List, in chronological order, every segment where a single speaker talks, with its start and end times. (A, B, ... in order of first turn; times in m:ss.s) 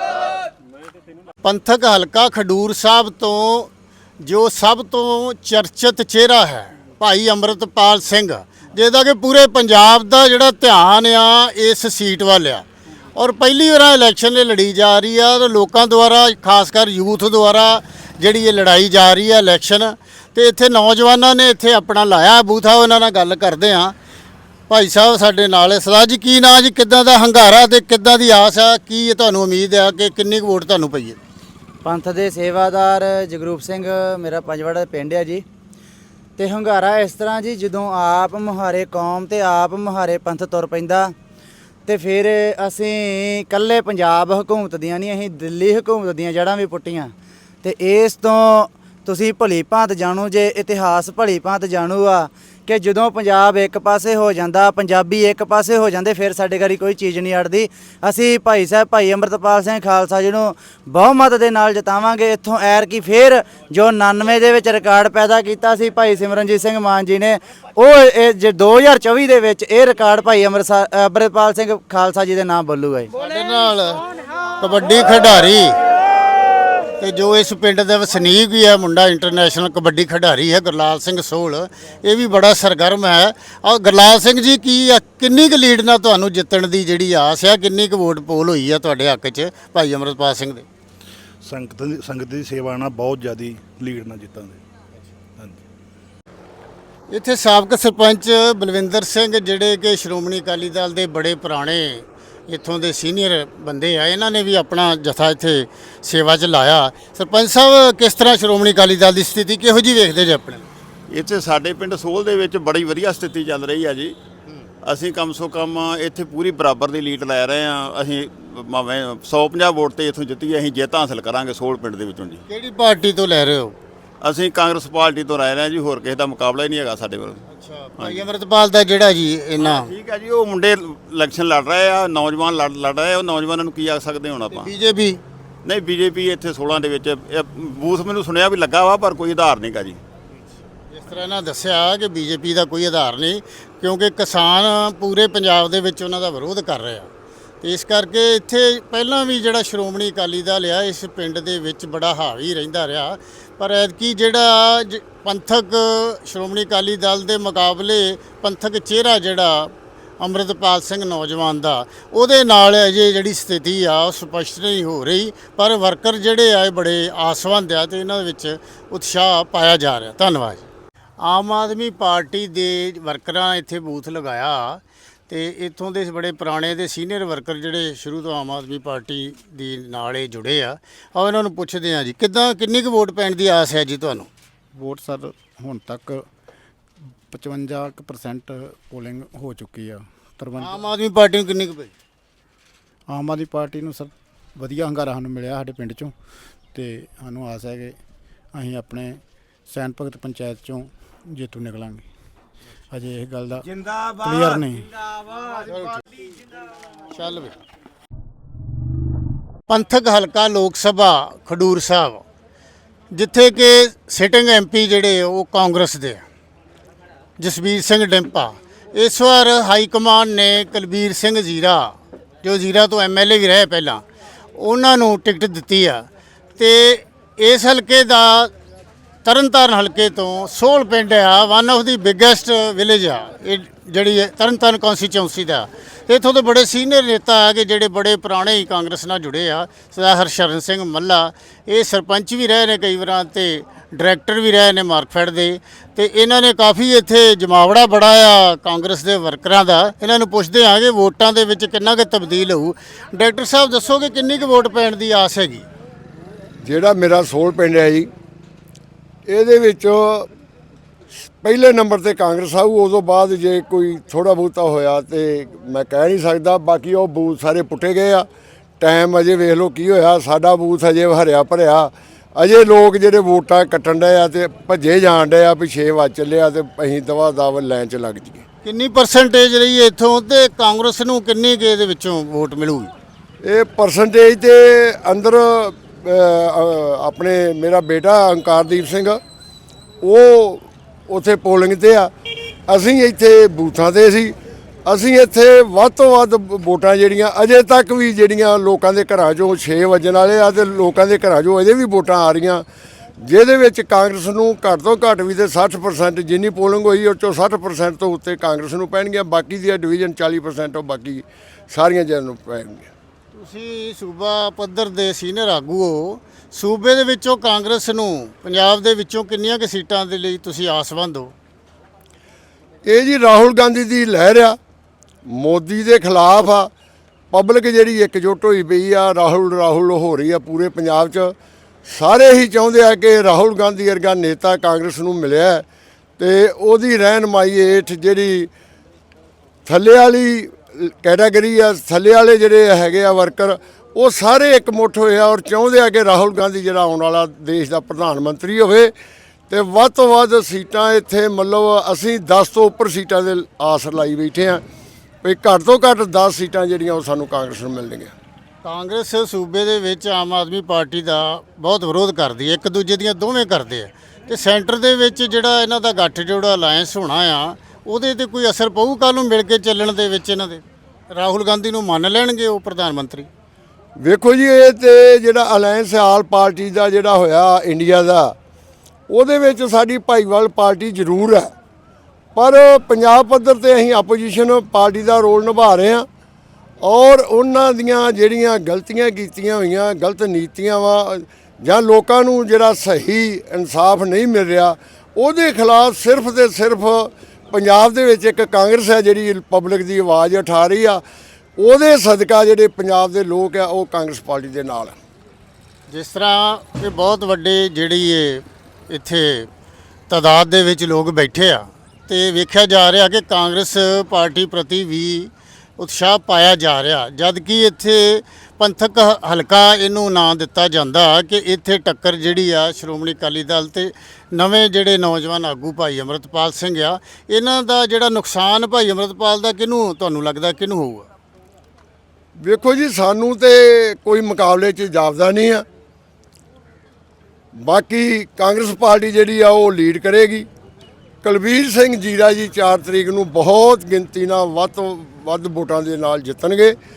0:01.4-0:24.0 A
0:24.7-0:31.2 A
0:31.8-0:35.4 B
0:36.4-0:41.1 B
0:41.9-1:13.1 B
1:13.2-1:14.0 A
1:14.6-1:15.8 A
1:17.0-1:30.6 A
1:31.4-1:34.6 C
1:35.4-1:35.6 C
1:37.1-1:50.7 A
1:51.1-1:54.2 D
1:54.8-2:02.4 D
2:02.5-2:03.8 A
2:04.2-2:07.4 D
2:07.5-2:09.9 A
2:08.0-2:08.3 D
2:09.6-2:14.7 D
2:14.5-2:15.2 A
2:15.6-2:20.0 D
2:20.9-2:27.1 A
2:27.6-2:50.7 A
2:51.2-3:04.3 A
3:04.8-3:06.2 E
3:07.3-3:10.9 E
3:10.6-3:11.9 A
3:13.1-3:16.1 E
3:16.7-3:18.0 E
3:18.5-3:22.0 E
3:22.9-3:24.9 E
3:25.6-3:26.0 A
3:27.1-3:27.6 A
3:29.7-3:32.2 A
3:33.1-3:36.2 A
3:37.4-3:44.0 A
3:44.6-3:46.1 A
3:46.6-3:48.5 A
3:49.2-4:15.7 A
4:16.6-4:18.1 F
4:19.3-4:20.3 F
4:21.2-4:28.2 F
4:28.8-4:38.4 F
4:38.6-4:42.9 A
4:43.4-4:49.2 F
4:50.0-4:52.1 F
4:52.7-4:54.4 F
4:54.9-5:02.6 F
5:03.2-5:12.9 F
5:13.3-5:21.3 A
5:22.8-5:24.6 F
5:25.3-5:26.7 F
5:27.3-5:31.3 F
5:31.9-5:35.6 F
5:36.2-5:38.5 F
5:39.7-5:48.9 F
5:49.5-5:54.6 F
5:55.2-5:58.1 F
5:58.6-6:13.3 A
6:14.0-6:18.3 F
6:19.1-6:21.5 F
6:22.4-6:26.1 F
6:26.8-6:41.0 F
6:41.6-6:45.0 F
6:45.9-6:49.5 A
6:50.1-7:11.1 A
7:12.4-7:15.6 F
7:17.6-7:20.5 F
7:21.2-7:26.8 F